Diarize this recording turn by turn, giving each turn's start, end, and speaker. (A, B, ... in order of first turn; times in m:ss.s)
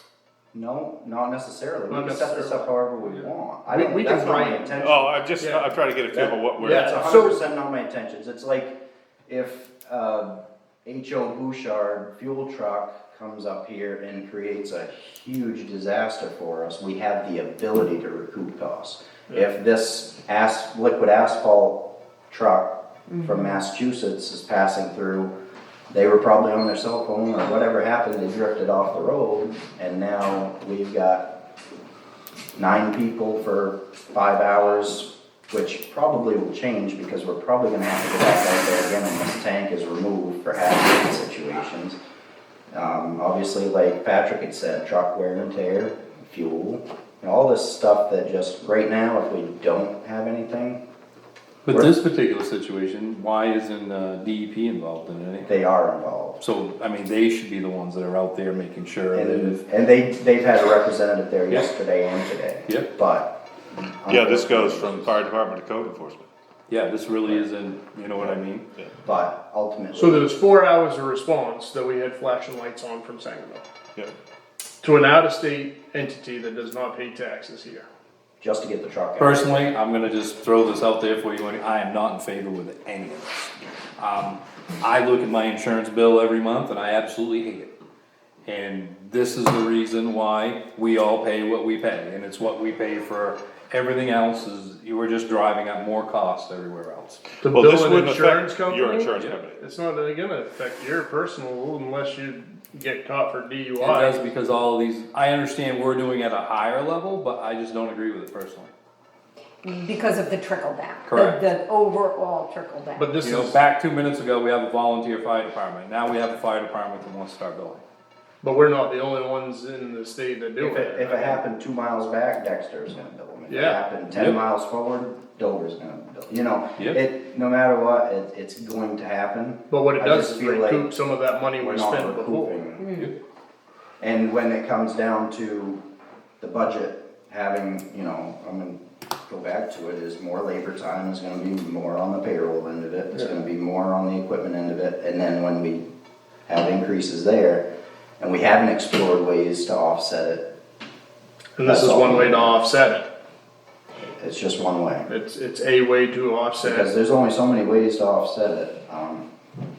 0:00.5-0:05.1 A
0:01.9-0:02.7 B
0:03.7-0:04.8 B
0:04.8-0:07.1 C
0:05.4-0:05.7 B
0:06.1-0:25.3 A
0:06.6-0:07.4 B
0:23.1-0:23.6 D
0:25.9-0:31.3 A
0:32.6-0:42.0 A
0:42.7-0:50.8 A
0:51.6-0:55.5 E
0:55.5-0:56.4 A
0:56.4-0:59.6 E
0:59.1-1:05.2 A
1:04.1-1:06.3 C
1:06.7-1:08.6 E
1:08.2-1:09.0 C
1:09.0-1:10.3 A
1:09.9-1:13.6 B
1:14.8-1:17.9 B
1:18.4-1:19.7 A
1:19.2-1:27.7 E
1:28.4-1:37.2 E
1:37.4-1:44.2 B
1:37.4-1:39.6 C
1:43.8-1:48.7 E
1:49.6-1:53.2 D
1:51.1-1:51.4 E
1:53.0-1:53.6 B
1:53.2-1:57.8 E
1:58.4-2:01.4 B
2:00.6-2:10.9 A
2:03.5-2:03.8 B
2:04.1-2:04.4 E
2:09.7-2:12.6 B
2:11.6-2:12.9 A
2:12.8-2:13.1 D
2:14.0-2:15.8 A
2:16.4-2:25.8 A
2:26.5-2:27.7 A
2:28.2-2:30.5 A
2:31.6-2:33.1 B
2:31.6-2:32.6 A
2:34.0-2:35.1 A
2:35.1-2:36.9 B
2:36.6-2:39.3 A